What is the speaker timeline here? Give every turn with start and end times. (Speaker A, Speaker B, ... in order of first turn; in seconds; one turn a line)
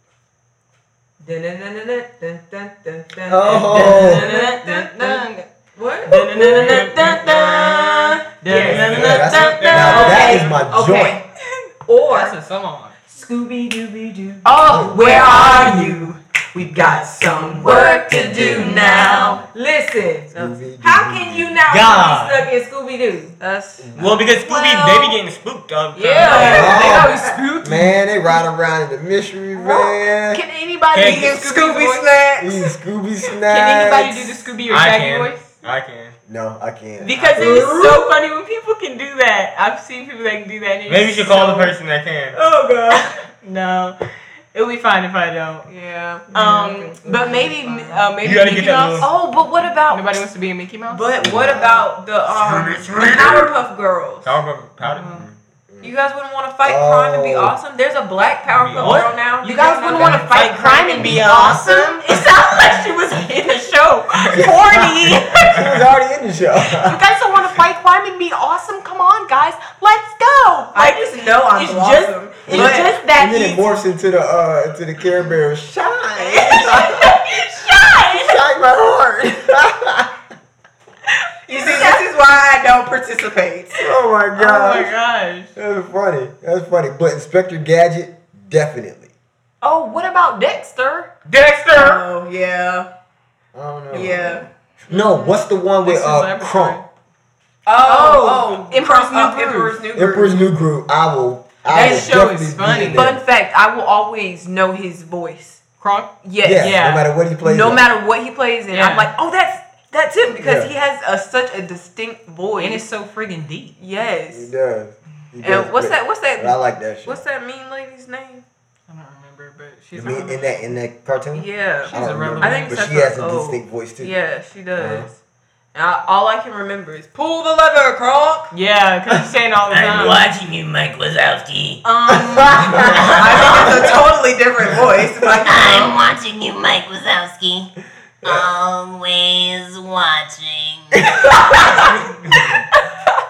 Speaker A: 1.2-6.9
Speaker B: 3.3-4.3
Speaker C: 3.5-5.5
Speaker C: 6.0-10.5
Speaker D: 6.1-7.9
Speaker D: 8.5-10.5
Speaker B: 8.5-11.2
Speaker A: 9.7-11.2
Speaker E: 9.9-10.5
Speaker A: 11.8-12.4
Speaker C: 12.1-13.0
Speaker A: 13.1-16.1
Speaker E: 14.4-16.1
Speaker B: 14.7-15.2
Speaker C: 14.9-19.4
Speaker A: 16.8-23.4
Speaker E: 17.2-19.4
Speaker B: 18.1-18.8
Speaker B: 20.3-21.6
Speaker D: 21.7-22.4
Speaker E: 23.4-23.9
Speaker B: 23.8-24.2
Speaker D: 23.9-26.8
Speaker C: 24.4-25.1
Speaker E: 24.5-25.1
Speaker E: 25.9-27.1
Speaker C: 26.0-28.0
Speaker B: 26.3-30.4
Speaker A: 26.8-27.2
Speaker C: 30.3-32.4
Speaker D: 30.9-31.4
Speaker E: 30.9-32.6
Speaker B: 32.4-34.4
Speaker C: 33.5-35.6
Speaker D: 34.7-36.2
Speaker B: 36.3-37.7
Speaker C: 37.0-41.8
Speaker D: 37.2-37.6
Speaker D: 40.9-42.4
Speaker C: 42.3-45.7
Speaker E: 45.7-48.1
Speaker A: 46.3-47.6
Speaker C: 46.3-49.1
Speaker D: 48.2-49.1
Speaker E: 49.0-50.3
Speaker C: 49.9-51.1
Speaker E: 50.9-54.4
Speaker B: 51.2-51.9
Speaker D: 52.3-53.6
Speaker D: 54.2-55.3
Speaker C: 54.9-55.3
Speaker B: 55.7-55.9
Speaker E: 55.8-62.0
Speaker B: 56.6-57.5
Speaker D: 58.5-59.1
Speaker C: 58.8-65.8
Speaker D: 60.2-61.6
Speaker B: 64.3-67.0
Speaker C: 66.8-73.8
Speaker E: 70.7-72.9
Speaker B: 72.5-77.1
Speaker E: 76.2-77.2
Speaker C: 76.6-78.4
Speaker B: 78.0-80.2
Speaker E: 81.5-83.9
Speaker C: 81.6-82.0
Speaker B: 83.8-84.9
Speaker C: 84.4-85.5
Speaker B: 85.5-89.1
Speaker C: 89.6-91.1
Speaker D: 91.3-92.1
Speaker E: 91.7-92.9
Speaker B: 93.5-96.8
Speaker E: 93.9-94.5
Speaker C: 94.9-96.9
Speaker E: 97.7-100.5
Speaker C: 97.8-99.8
Speaker B: 100.0-103.2
Speaker E: 101.7-102.1
Speaker C: 101.7-103.1
Speaker E: 102.7-105.6
Speaker C: 105.8-107.1
Speaker E: 106.2-106.8
Speaker B: 106.4-107.8
Speaker E: 107.4-112.8
Speaker C: 108.7-109.1
Speaker B: 110.3-110.7
Speaker C: 112.6-113.8
Speaker E: 113.8-114.5
Speaker B: 114.3-117.2
Speaker E: 115.4-118.5
Speaker C: 118.9-120.6
Speaker B: 120.0-124.2
Speaker E: 120.0-120.3
Speaker E: 121.3-125.2
Speaker C: 121.8-122.8
Speaker B: 124.8-125.1
Speaker E: 125.7-128.5
Speaker C: 128.5-130.2
Speaker F: 129.7-131.8
Speaker C: 131.8-133.6
Speaker E: 132.5-135.9
Speaker B: 132.7-133.0
Speaker F: 132.8-133.9
Speaker F: 135.2-137.7
Speaker F: 138.2-141.9
Speaker E: 141.1-142.8
Speaker D: 141.9-142.6